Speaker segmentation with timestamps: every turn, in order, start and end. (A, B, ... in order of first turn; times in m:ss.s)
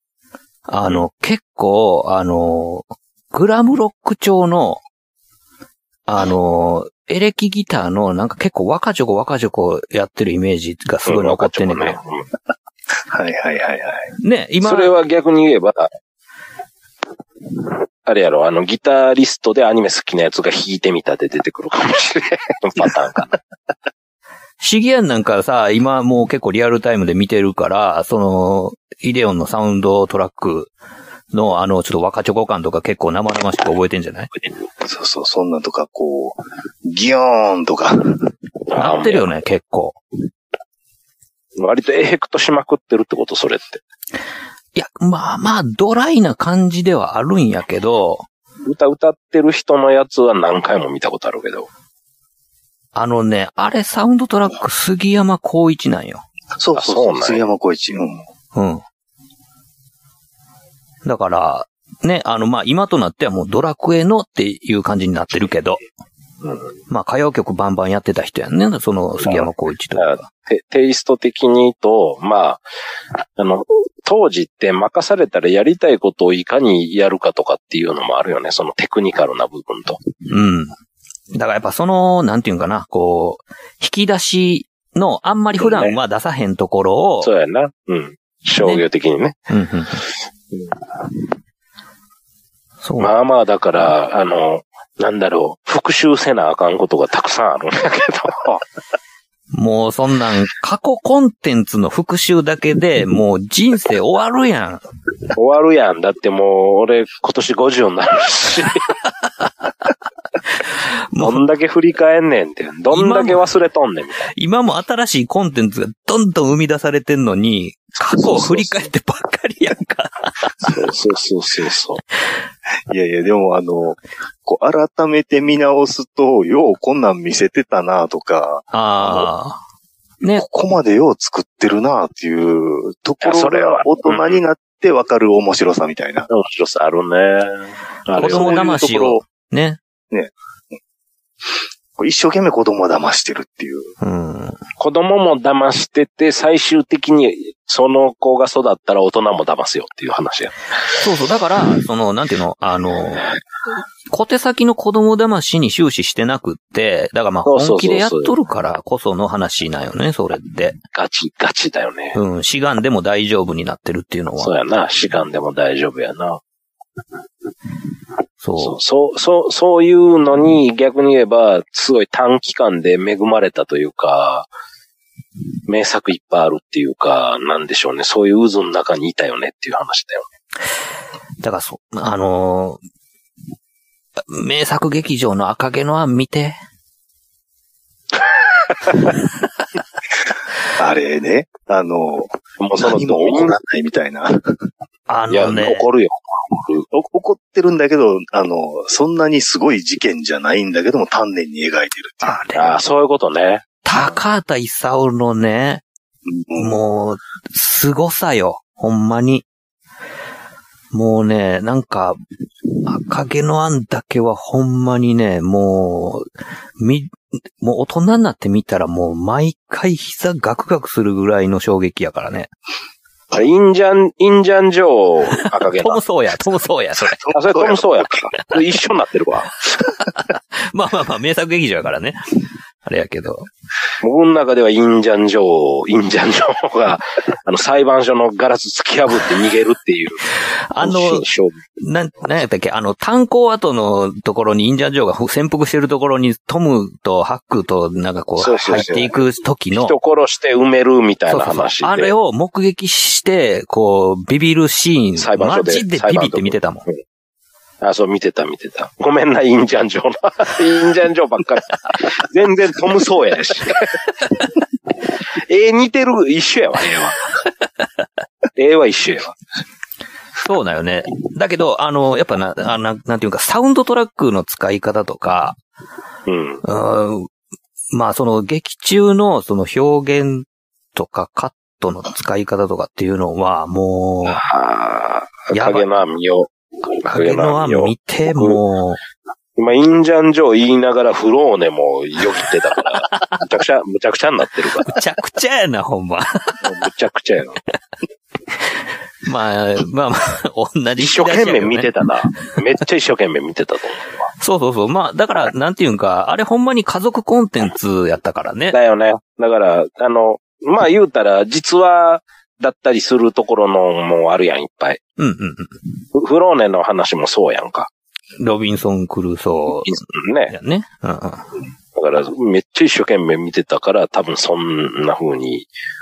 0:00.7-0:04.8 A
0:06.1-0:12.0 A
0:11.0-0:12.2 B
0:13.0-0:14.1 C
0:14.2-0:14.9 A
0:14.6-0:15.9 B
0:18.0-0:23.4 B
0:24.6-0:30.7 A
0:31.3-0:34.3 A
0:34.8-0:38.3 C
0:38.7-0:39.2 B
0:38.8-0:40.0 A
0:41.6-0:43.8 B
0:44.7-0:48.2 A
0:48.6-0:51.7 B
0:52.9-0:56.2 A
0:56.6-0:58.2 C
0:56.7-0:57.4 B
0:58.5-0:58.8 A
1:01.0-1:05.8 A
1:06.4-1:06.7 B
1:06.9-1:10.3 A
1:09.2-1:12.6 B
1:13.4-1:20.0 B
1:20.3-1:20.7 A
1:21.3-1:27.3 A
1:25.6-1:25.9 B
1:27.2-1:29.4 B
1:29.5-1:30.0 A
1:32.8-1:33.1 A
1:33.0-1:38.6 B
1:39.5-1:44.8 A
1:45.3-1:48.8 B
1:51.1-1:51.4 A
1:51.2-1:54.3 B
1:52.9-1:53.4 A
1:54.3-2:00.7 A
1:58.1-1:58.8 B
2:00.6-2:02.0 B
2:02.9-2:09.3 C
2:08.7-2:09.6 A
2:10.3-2:16.3 C
2:13.2-2:14.4 B
2:16.3-2:18.7 B
2:18.2-2:19.8 A
2:18.2-2:19.2 C
2:22.0-2:23.9 C
2:24.0-2:24.6 A
2:24.8-2:30.5 B
2:31.0-2:33.3 A
2:34.1-2:40.8 A
2:37.4-2:38.3 B
2:40.9-2:42.2 B
2:42.1-2:44.5 A
2:44.4-2:46.4 B
2:48.4-2:48.8 A
2:48.6-2:54.5 B
2:55.7-3:00.3 B
3:01.4-3:02.8 A
3:04.3-3:06.6 A
3:10.8-3:14.6 C
3:12.6-3:13.5 B
3:15.1-3:15.8 A
3:15.3-3:16.8 B
3:16.9-3:22.4 C
3:22.2-3:22.8 A
3:22.6-3:23.6 B
3:23.8-3:25.8 A
3:26.3-3:26.8 C
3:26.6-3:29.4 A
3:30.9-3:32.2 A
3:32.8-3:36.3 A
3:36.8-3:42.5 A
3:43.3-3:46.0 B
3:45.8-3:47.3 A
3:47.2-3:47.8 C
3:47.3-3:49.5 B
3:49.9-3:53.5 A
3:54.0-4:01.6 B
4:00.7-4:01.2 A
4:01.8-4:09.9 A
4:08.4-4:09.2 B
4:09.7-4:12.1 B
4:11.3-4:16.8 A
4:15.2-4:17.0 B
4:17.8-4:24.0 B
4:25.3-4:27.3 B
4:28.6-4:29.4 B
4:30.4-4:35.6 A
4:36.3-4:36.6 B
4:36.6-4:37.3 A
4:37.9-4:44.4 A
4:44.3-4:48.6 B
4:45.5-4:45.9 A
4:47.1-4:49.0 A
4:49.6-4:55.0 B
4:54.8-4:56.6 A
4:56.6-4:57.6 B
4:59.2-5:01.9 A
5:01.0-5:04.3 B
5:04.4-5:08.8 A
5:08.7-5:15.0 B
5:15.2-5:15.7 A
5:16.1-5:17.9 B
5:18.4-5:19.9 A
5:19.8-5:20.5 B
5:20.5-5:21.4 A
5:21.9-5:25.7 B